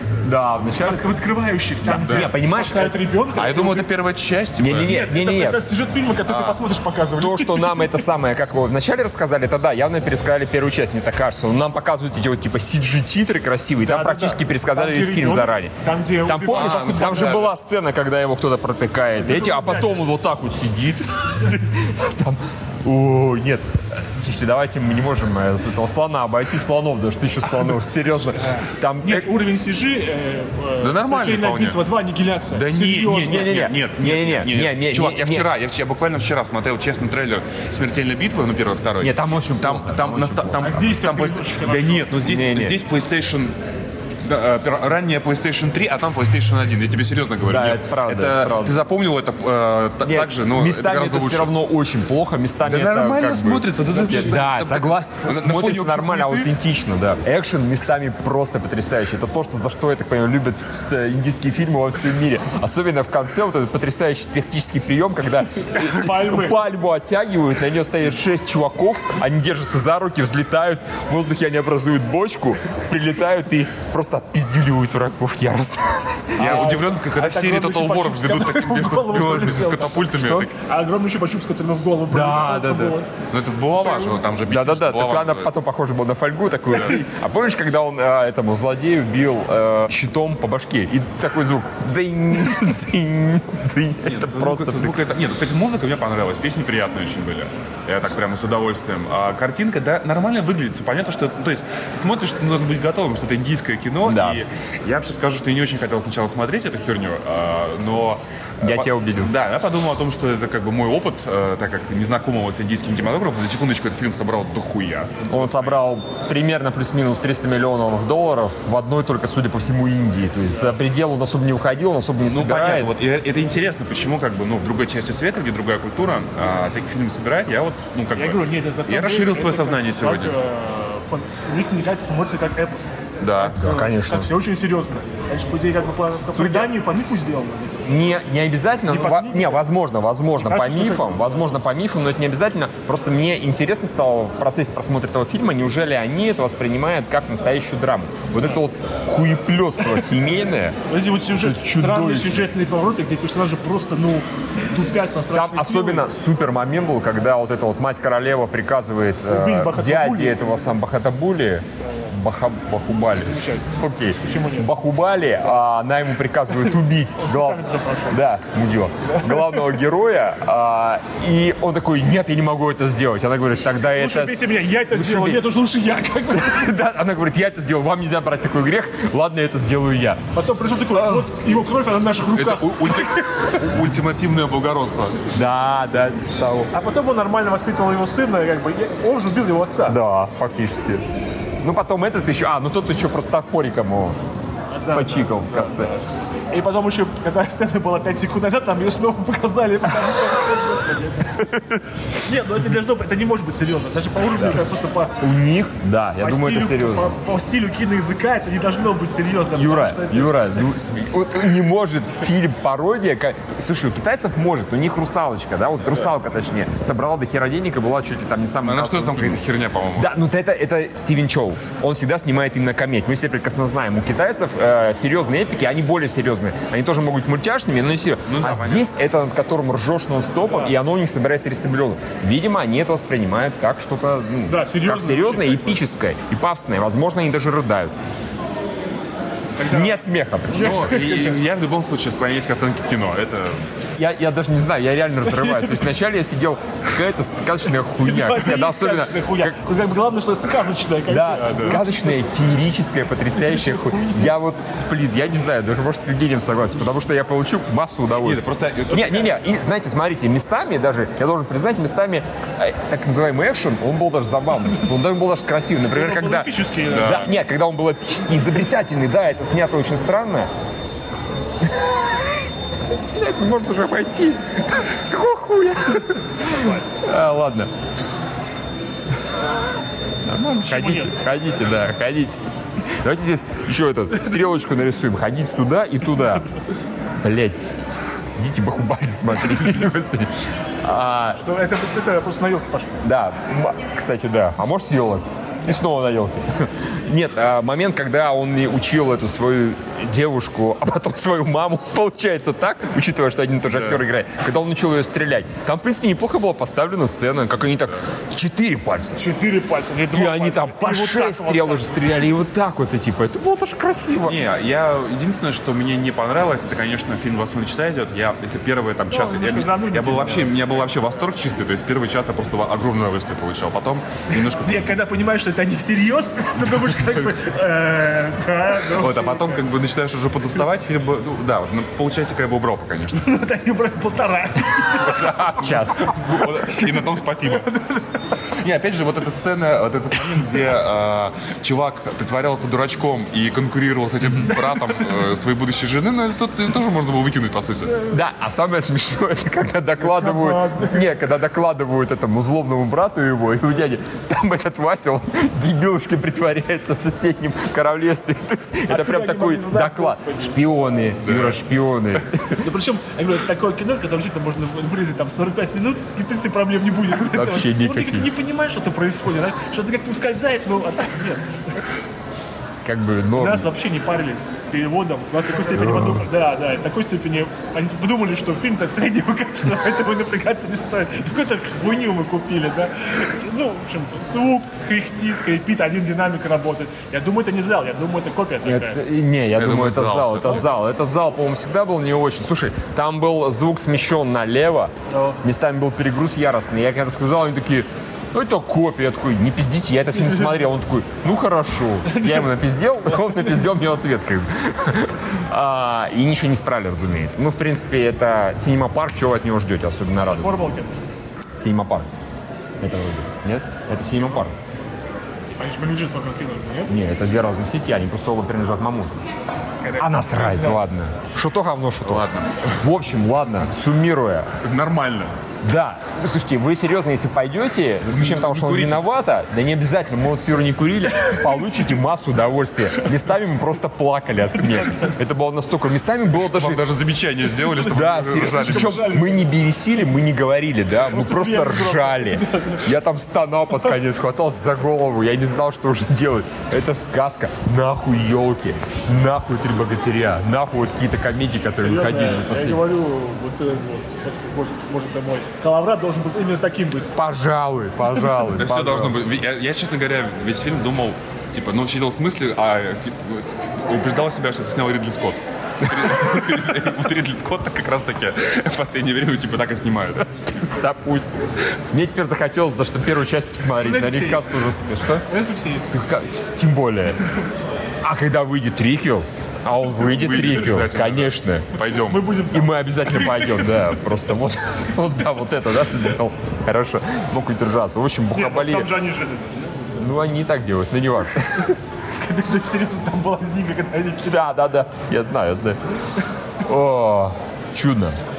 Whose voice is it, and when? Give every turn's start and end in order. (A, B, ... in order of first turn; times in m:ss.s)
0:00.2-0:01.0 A
0:00.7-0:03.9 B
0:01.8-0:03.0 A
0:02.0-0:02.3 C
0:03.3-0:04.9 C
0:04.6-0:05.6 A
0:04.8-0:08.0 B
0:06.2-0:06.6 C
0:07.2-0:15.7 A
0:13.8-0:17.4 B
0:16.2-0:29.3 A
0:16.5-0:17.5 C
0:19.2-0:20.1 B
0:28.6-0:33.6 B
0:30.8-0:31.8 C
0:32.5-0:43.5 C
0:33.1-0:35.5 A
0:39.0-0:40.9 A
0:40.6-0:42.2 B
0:42.2-0:42.8 A
0:44.2-0:51.5 C
0:47.4-0:48.8 A
0:50.0-1:16.8 A
0:52.6-0:56.5 C
1:05.7-1:06.6 B
1:16.4-1:20.5 C
1:16.4-1:23.1 B
1:19.1-1:20.5 A
1:22.1-1:23.0 A
1:23.3-1:25.5 C
1:24.5-1:35.0 A
1:26.7-1:27.0 C
1:34.0-1:55.8 C
1:44.0-1:44.4 A
1:48.6-1:49.3 A
1:55.3-2:02.9 A
2:00.5-2:00.8 B
2:02.2-2:10.3 C
2:08.2-2:18.1 B
2:13.2-2:13.6 C
2:13.5-2:14.3 A
2:16.3-2:16.7 A
2:17.8-2:30.8 A
2:18.9-2:19.6 B
2:20.4-2:21.5 B
2:30.9-2:36.1 B
2:31.3-2:32.5 A
2:35.3-2:55.5 A
2:39.3-2:40.5 B
2:43.2-2:43.7 B
2:44.2-2:44.7 B
2:46.6-2:48.2 B
2:49.1-2:49.6 B
2:53.9-2:56.6 B
2:56.3-3:00.2 A
3:00.3-3:03.4 B
3:02.3-3:05.2 C
3:05.3-3:06.7 A
3:06.7-3:10.0 B
3:09.9-3:11.0 A
3:11.6-3:14.2 A
3:14.7-3:21.4 B
3:14.9-3:15.9 A
3:21.3-3:21.8 A
3:22.2-3:25.2 B
3:25.2-3:27.1 A
3:26.2-3:30.4 B
3:29.5-3:39.4 A
3:38.6-3:40.1 C
3:40.0-3:57.9 A
3:48.2-3:48.9 C
3:54.5-3:55.8 B
3:59.6-4:00.0 B
3:59.7-4:01.0 A
4:00.5-4:03.6 C
4:00.5-4:01.3 B
4:04.0-4:09.6 A
4:08.0-4:12.0 B
4:11.1-4:30.5 A
4:11.3-4:11.8 C
4:13.3-4:14.3 B
4:18.1-4:19.3 C
4:25.9-4:27.4 B
4:26.8-4:27.3 C
4:31.6-4:32.4 A
4:33.1-4:37.7 A
4:36.5-4:36.8 B
4:40.2-4:46.4 A
4:40.6-4:41.2 B
4:47.2-4:47.8 A
4:48.4-4:51.4 A
4:51.4-4:53.0 B
4:53.0-5:09.2 A
5:03.7-5:04.0 C
5:09.1-5:12.0 B
5:10.1-5:14.4 A
5:14.2-5:25.0 C
5:19.1-5:21.0 B
5:24.5-5:29.6 B
5:26.6-5:27.3 C
5:28.8-5:33.2 C
5:33.1-5:35.3 B
5:35.0-5:37.7 C
5:35.5-5:36.3 A
5:37.6-5:38.0 B
5:38.6-5:48.0 C
5:48.0-6:02.6 A
5:50.0-5:51.0 B
5:58.9-6:00.6 B
6:01.2-6:01.6 C
6:02.6-6:11.8 B
6:07.1-6:08.3 A
6:12.8-6:13.7 A
6:13.4-6:29.0 B
6:15.7-6:16.2 A
6:28.6-6:34.9 A
6:29.6-6:30.7 C
6:35.1-6:35.4 B
6:35.4-6:50.6 A
6:40.1-6:40.7 B
6:42.1-6:42.4 B
6:50.2-6:51.0 B
6:51.6-6:52.1 A
6:52.8-6:54.6 A
6:55.6-6:56.9 B
6:56.9-6:59.1 A
6:59.8-7:00.8 B
7:00.0-7:02.2 A
7:02.0-7:02.8 C
7:02.8-7:04.5 A
7:04.6-7:05.3 C
7:05.6-7:16.8 A
7:08.0-7:09.1 C
7:16.4-7:19.0 C
7:17.6-7:19.4 B
7:17.9-7:32.9 A
7:21.0-7:22.9 B
7:31.8-7:37.2 B
7:37.1-7:39.2 A
7:38.4-7:50.3 C
7:50.6-7:55.2 A
7:53.8-7:54.5 B
7:55.3-7:56.0 B
7:55.9-7:57.2 A
7:58.0-8:01.8 A
7:59.9-8:02.3 C
8:02.0-8:03.8 B
8:02.5-8:08.9 A
8:08.3-8:09.6 B
8:09.9-8:11.7 A
8:12.2-8:14.4 B
8:14.3-8:15.8 A
8:16.6-8:18.2 A